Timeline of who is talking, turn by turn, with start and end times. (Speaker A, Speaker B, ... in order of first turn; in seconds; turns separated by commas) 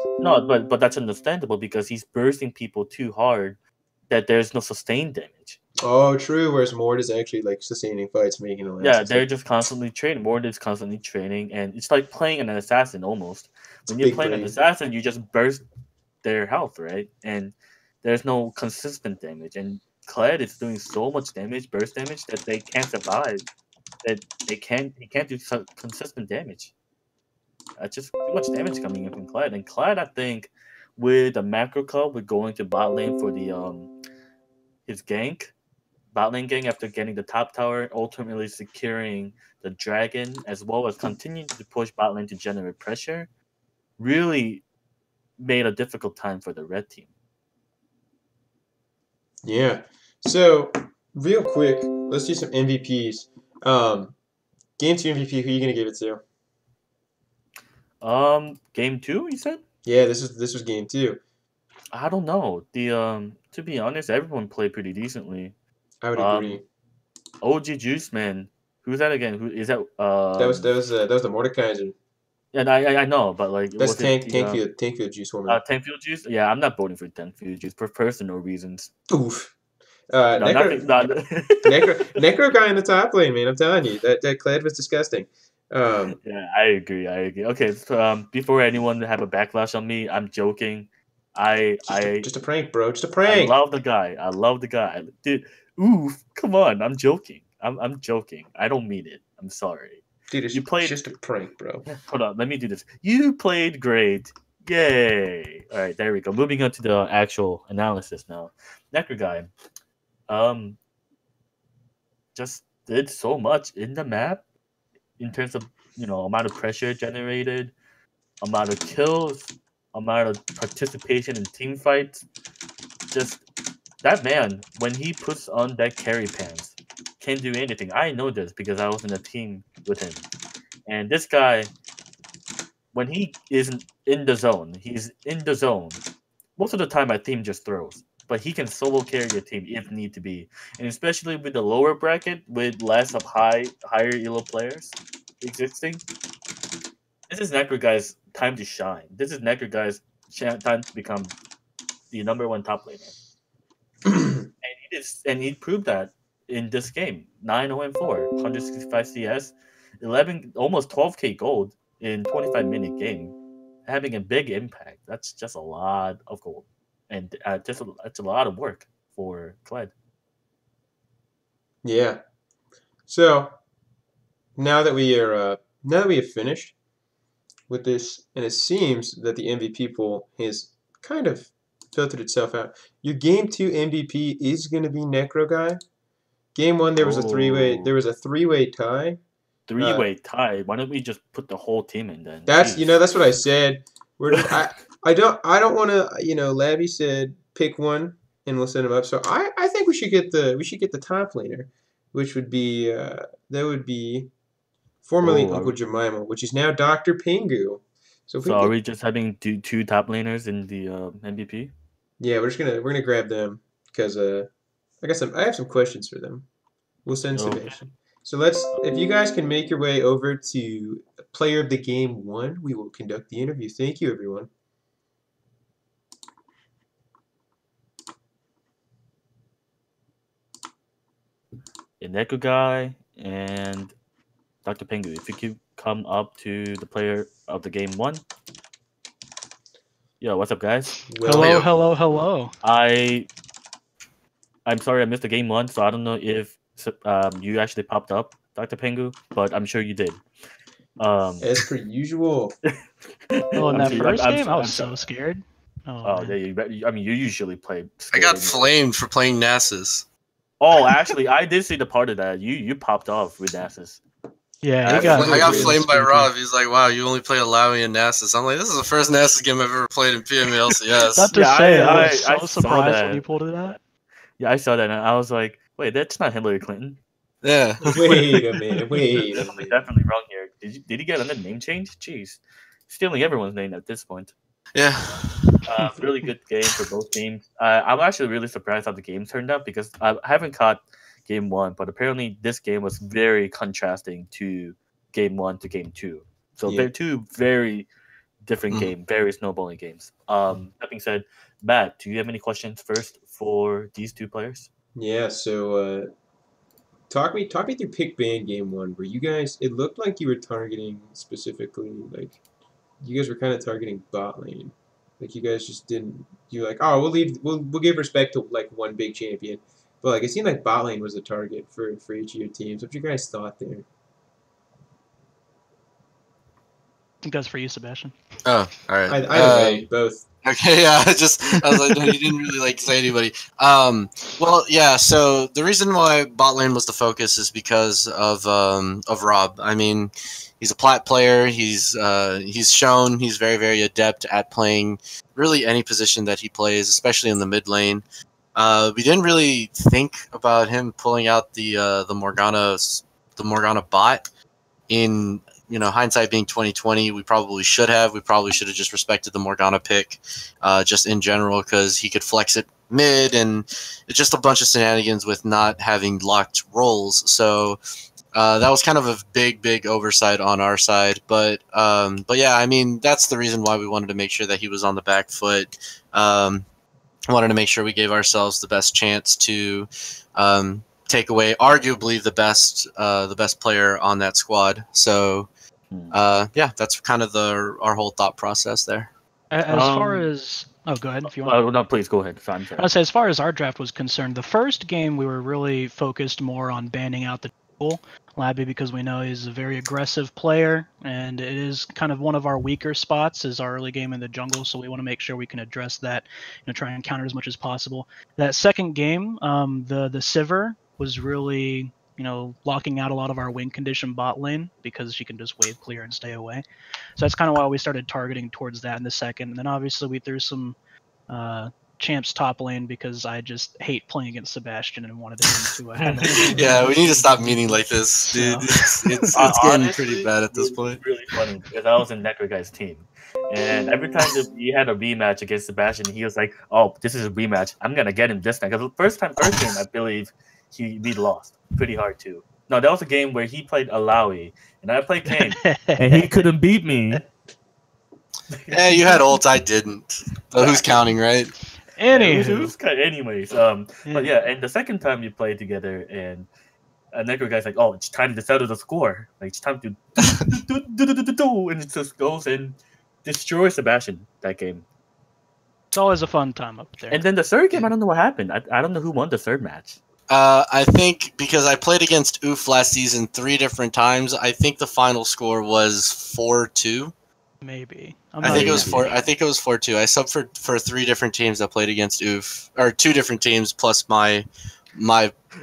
Speaker A: 0.2-5.6, Speaker B: 5.8-9.2, Speaker A: 8.8-15.6, Speaker B: 14.0-14.5, Speaker A: 16.2-23.4, Speaker A: 24.0-26.7, Speaker A: 27.8-33.9, Speaker A: 34.9-35.5, Speaker A: 36.1-43.3, Speaker A: 44.0-44.6, Speaker A: 45.4-47.1, Speaker B: 49.4-54.1, Speaker B: 54.8-56.2, Speaker A: 58.0-59.6, Speaker B: 59.8-61.2, Speaker A: 61.9-65.5, Speaker B: 66.0-66.6, Speaker A: 66.2-66.5, Speaker A: 67.4-70.7, Speaker B: 70.4-71.9, Speaker A: 72.5-74.6, Speaker B: 73.8-75.6, Speaker A: 75.5-78.9, Speaker B: 79.1-79.5, Speaker B: 80.1-80.9, Speaker A: 80.3-81.9, Speaker B: 81.6-86.2, Speaker A: 86.1-92.3, Speaker B: 91.9-93.5, Speaker A: 93.2-100.0, Speaker B: 100.3-101.8, Speaker A: 100.5-100.9, Speaker A: 101.9-109.5, Speaker A: 110.3-110.8, Speaker A: 112.3-114.4, Speaker A: 115.2-117.7, Speaker A: 118.4-122.2, Speaker A: 123.1-123.4, Speaker A: 124.0-130.2, Speaker A: 130.9-131.7, Speaker A: 132.9-136.0, Speaker A: 136.6-146.0, Speaker A: 147.3-151.3, Speaker A: 152.1-153.1, Speaker B: 154.1-154.4, Speaker A: 154.6-169.9, Speaker B: 171.8-172.2, Speaker B: 173.1-173.5, Speaker B: 174.6-176.7, Speaker B: 177.7-185.8, Speaker B: 186.5-189.2, Speaker A: 187.0-187.9, Speaker A: 189.7-192.9, Speaker B: 189.8-190.1, Speaker B: 192.5-204.3, Speaker B: 205.0-208.7, Speaker A: 205.2-205.7, Speaker A: 208.4-211.7, Speaker B: 212.2-214.5, Speaker B: 215.0-216.5, Speaker B: 217.0-224.5, Speaker A: 217.3-217.7, Speaker A: 232.0-233.9, Speaker A: 234.6-238.2, Speaker A: 240.2-240.9, Speaker B: 241.1-241.6, Speaker C: 241.2-242.5, Speaker D: 241.3-241.7, Speaker A: 242.6-243.3, Speaker A: 244.6-250.2, Speaker A: 251.0-251.5, Speaker B: 251.4-252.5, Speaker A: 253.3-255.0, Speaker C: 253.6-256.3, Speaker A: 256.0-258.7, Speaker D: 258.1-260.0, Speaker A: 260.6-264.0, Speaker C: 264.6-266.3, Speaker A: 264.8-265.7, Speaker D: 264.9-271.3, Speaker B: 265.0-265.8, Speaker C: 271.1-273.8, Speaker A: 271.3-273.7, Speaker A: 274.4-277.0, Speaker D: 277.4-278.1, Speaker B: 277.8-279.8, Speaker A: 278.9-284.3, Speaker D: 284.7-285.9, Speaker A: 285.6-297.9, Speaker A: 298.4-304.7, Speaker B: 304.9-306.1, Speaker B: 307.1-312.4, Speaker B: 313.0-323.8, Speaker C: 327.2-328.1, Speaker D: 328.4-329.9, Speaker B: 329.1-330.2, Speaker D: 330.4-348.0, Speaker D: 348.5-354.3, Speaker D: 354.9-367.8, Speaker D: 368.3-376.6, Speaker D: 377.3-385.5, Speaker D: 386.1-389.1, Speaker C: 389.5-391.6, Speaker A: 389.7-390.2, Speaker A: 391.2-392.9, Speaker C: 392.8-416.6, Speaker C: 417.1-420.8, Speaker C: 421.3-427.8, Speaker D: 426.2-431.0, Speaker C: 428.3-429.4, Speaker A: 429.3-447.2, Speaker D: 439.4-439.7, Speaker C: 445.3-446.3, Speaker D: 448.7-451.5, Speaker C: 451.9-452.7, Speaker A: 452.1-456.5, Speaker C: 454.1-454.3, Speaker A: 457.1-464.8, Speaker C: 465.9-467.2, Speaker A: 467.1-470.0, Speaker D: 470.3-477.1, Speaker C: 477.6-479.1, Speaker D: 478.4-485.3, Speaker A: 478.4-479.1